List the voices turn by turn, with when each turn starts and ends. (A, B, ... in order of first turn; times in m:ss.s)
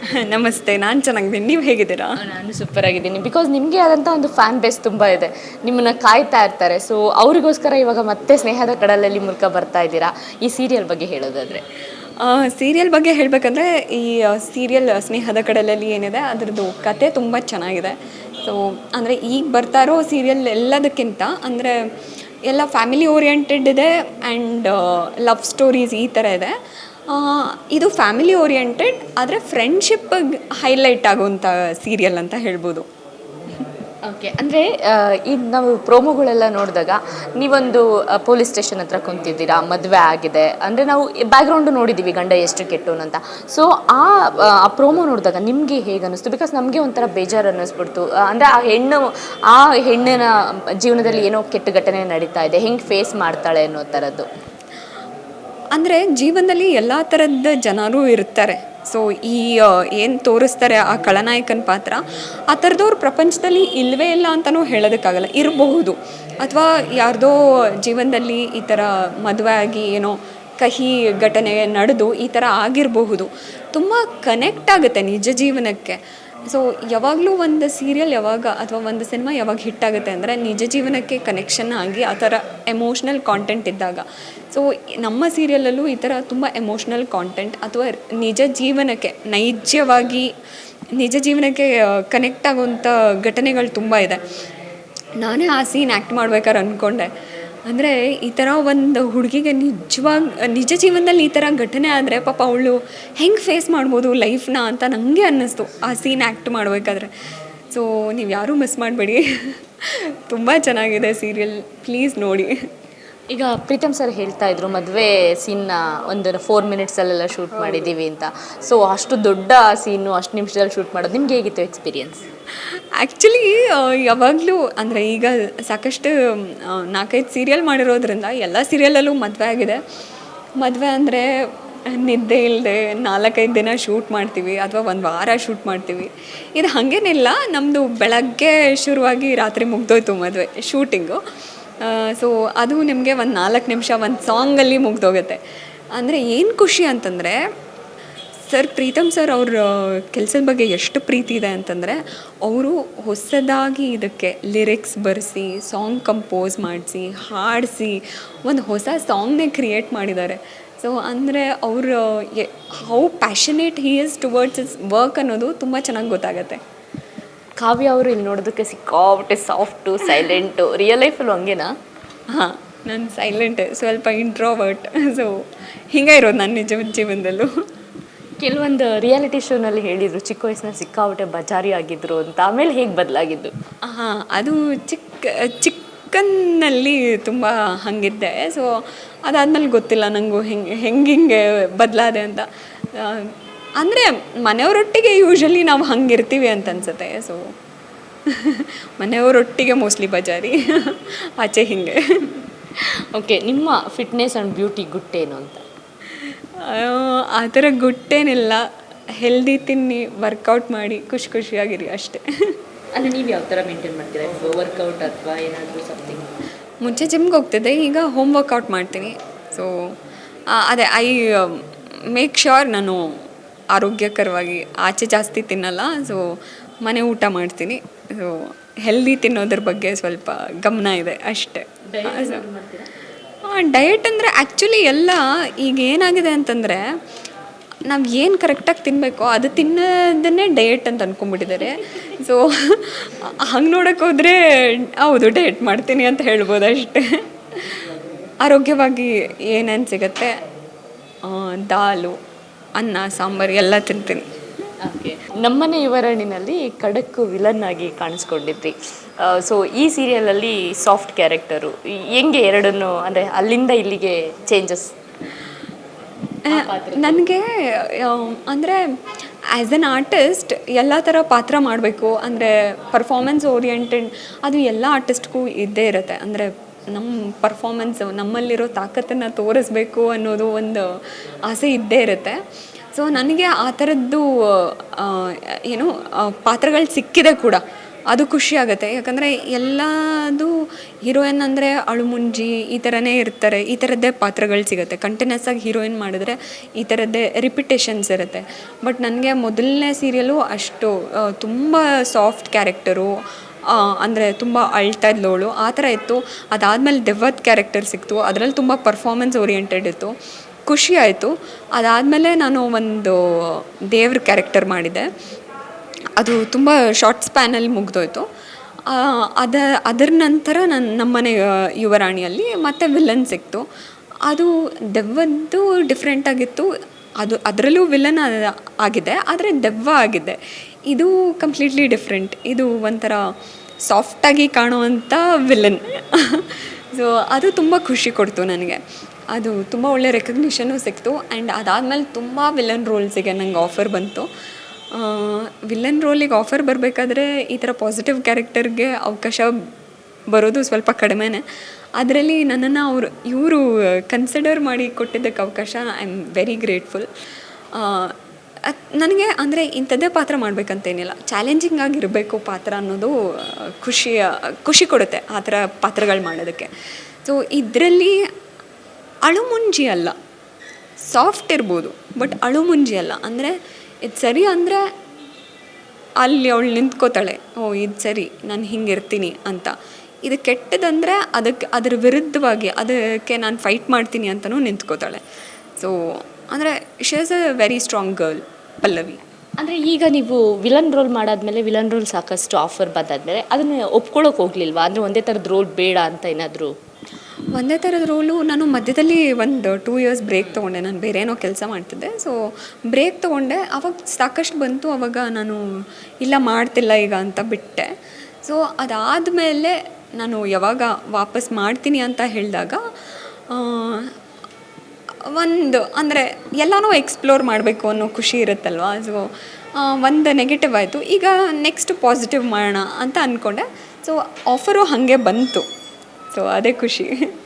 0:00.2-0:02.2 A
0:02.2-0:11.6 B
0:12.2-0:21.8 A
0:22.5-0:26.5 A
0:27.1-0:32.9 A
0:34.0-0:54.3 B
0:55.8-1:30.3 A
1:31.0-1:34.2 A
1:35.2-1:37.1 A
1:37.7-1:47.1 A
1:47.7-1:52.6 A
1:53.3-2:02.2 B
1:57.5-1:57.9 A
2:03.0-2:09.8 A
2:10.6-2:11.2 A
2:11.9-2:21.2 A
2:21.8-2:25.4 A
2:25.9-2:27.4 A
2:28.4-2:46.6 A
2:47.6-2:51.7 B
2:52.3-2:57.5 A
2:58.4-3:03.5 B
3:03.8-3:17.5 A
3:18.3-3:22.4 A
3:22.8-3:25.6 B
3:26.6-3:28.6 A
3:29.2-3:32.5 A
3:32.9-3:36.3 B
3:36.8-3:40.0 A
3:40.5-3:43.2 A
3:43.7-3:52.4 A
3:51.9-3:52.9 B
3:53.4-3:56.8 A
3:57.9-4:07.8 A
4:08.4-4:10.3 A
4:11.2-4:12.2 A
4:12.8-4:14.2 A
4:14.8-4:24.9 B
4:26.5-4:27.2 B
4:26.5-4:28.8 A
4:29.5-4:40.9 A
4:41.4-4:42.4 A
4:42.9-4:50.5 A
4:51.0-5:03.1 A
5:03.7-5:10.1 A
5:10.7-5:15.0 A
5:16.2-5:18.2 A
5:18.9-5:23.6 A
5:24.2-5:30.4 A
5:30.9-5:33.2 A
5:33.8-5:44.3 A
5:44.9-5:49.5 A
5:50.3-5:51.4 A
5:52.0-5:57.1 A
5:57.8-5:58.1 A
5:58.6-6:06.7 A
6:07.2-6:08.2 A
6:09.2-6:10.1 A
6:11.0-6:14.8 A
6:16.2-6:19.7 A
6:20.2-6:25.2 A
6:25.8-6:29.2 A
6:29.6-6:36.8 B
6:37.5-6:47.9 A
6:48.4-6:52.8 A
6:53.5-6:54.1 A
6:55.3-7:05.6 A
7:06.3-7:07.1 A